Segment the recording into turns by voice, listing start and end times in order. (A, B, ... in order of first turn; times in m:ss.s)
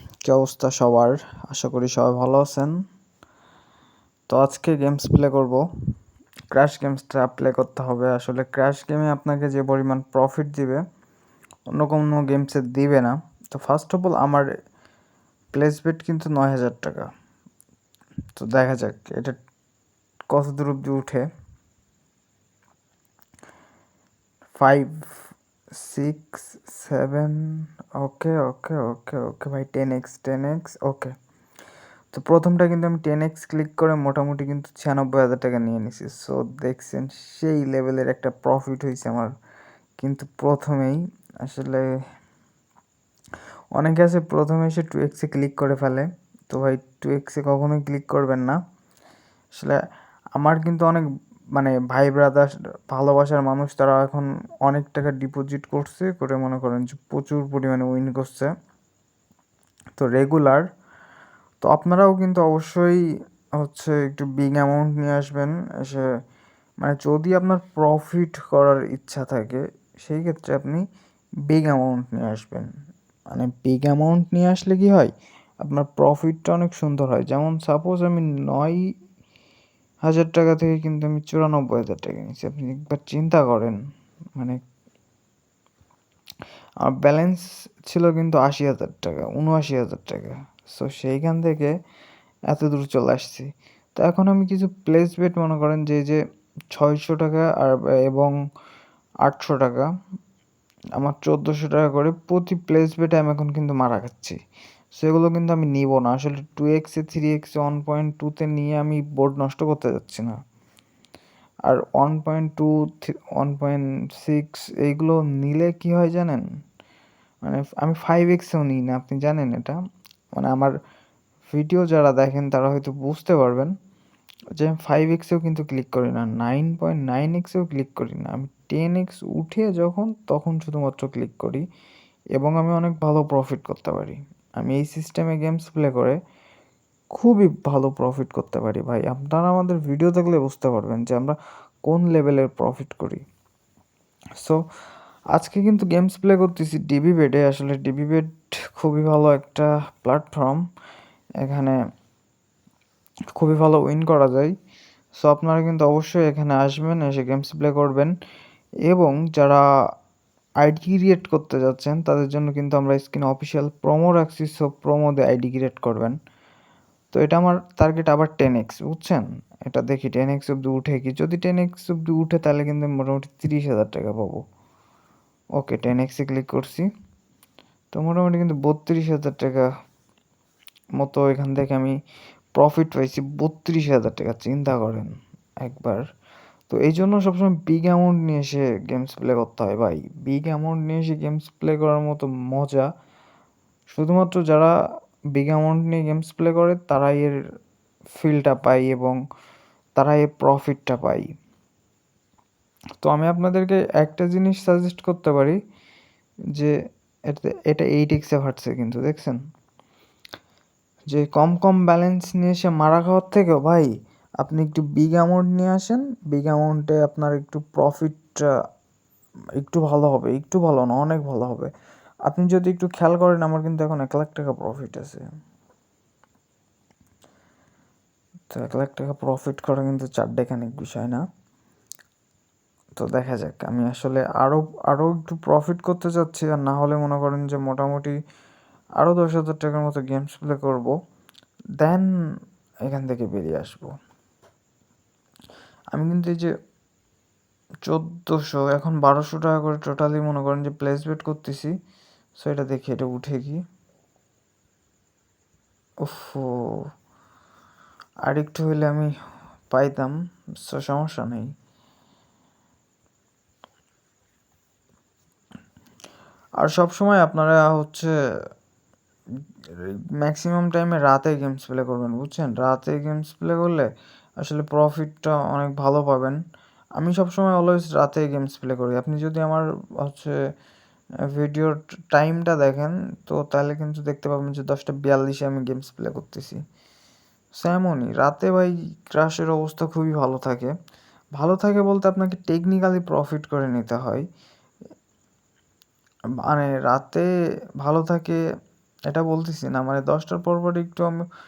0:00.2-0:02.8 A
0:04.3-0:05.6 A
0:06.5-0:10.8 A
0:11.7-0:14.4 A
0:15.5-0:17.1 A
0:18.4-0:19.4 A
0:20.3-0:21.3 A
0:24.6-0:25.0 A
0:25.7-0:31.1 A
0:32.1-0:39.3 A
0:40.0-0:41.9 A
0:43.8-0:48.6 A
0:50.4-0:58.5 A
1:00.0-1:00.6 A
1:01.6-1:03.0 A
1:03.6-1:06.0 A
1:06.8-1:10.8 A
1:11.5-1:12.7 A
1:13.3-1:15.1 A
1:15.6-1:18.8 A
1:20.0-1:23.8 A
1:26.8-1:31.7 A
1:32.5-1:36.2 A
1:36.7-1:38.3 A
1:39.2-1:39.9 A
1:41.0-1:44.4 A
1:45.0-1:50.3 A
1:51.7-1:56.5 A
1:57.4-1:59.8 A
2:00.3-2:00.7 A
2:01.5-2:03.7 A
2:04.6-2:11.6 A
2:12.4-2:16.2 A
2:17.1-2:23.2 A
2:25.3-2:30.6 A
2:31.4-2:31.8 A
2:33.3-2:34.5 A
2:35.2-2:38.1 A
2:38.8-2:39.6 A
2:40.6-2:46.2 A
2:47.1-2:54.4 A
2:55.6-2:56.9 A
2:57.9-2:59.6 A
3:01.0-3:01.9 A
3:02.6-3:06.0 A
3:06.7-3:12.9 A
3:13.9-3:14.7 A
3:15.3-3:17.4 A
3:18.2-3:19.2 A
3:20.0-3:21.3 A
3:23.0-3:25.6 A
3:27.3-3:29.4 A
3:31.1-3:38.5 A
3:39.6-3:41.7 A
3:42.3-3:45.2 A
3:48.5-3:51.2 A
3:53.0-3:58.1 A
3:59.0-4:00.9 A
4:01.8-4:02.1 A
4:02.8-4:03.9 A
4:05.9-4:06.5 A
4:07.8-4:11.7 A
4:12.4-4:13.6 A
4:16.0-4:16.9 A
4:18.3-4:19.1 A
4:19.7-4:21.5 A
4:26.6-4:28.1 A
4:29.7-4:33.9 A
4:34.4-4:36.4 A
4:37.0-4:40.3 A
4:41.3-4:46.6 A
4:47.5-4:50.7 A
4:51.3-4:54.2 A
4:56.4-4:57.3 A
4:57.8-4:58.4 A
4:59.1-5:01.2 A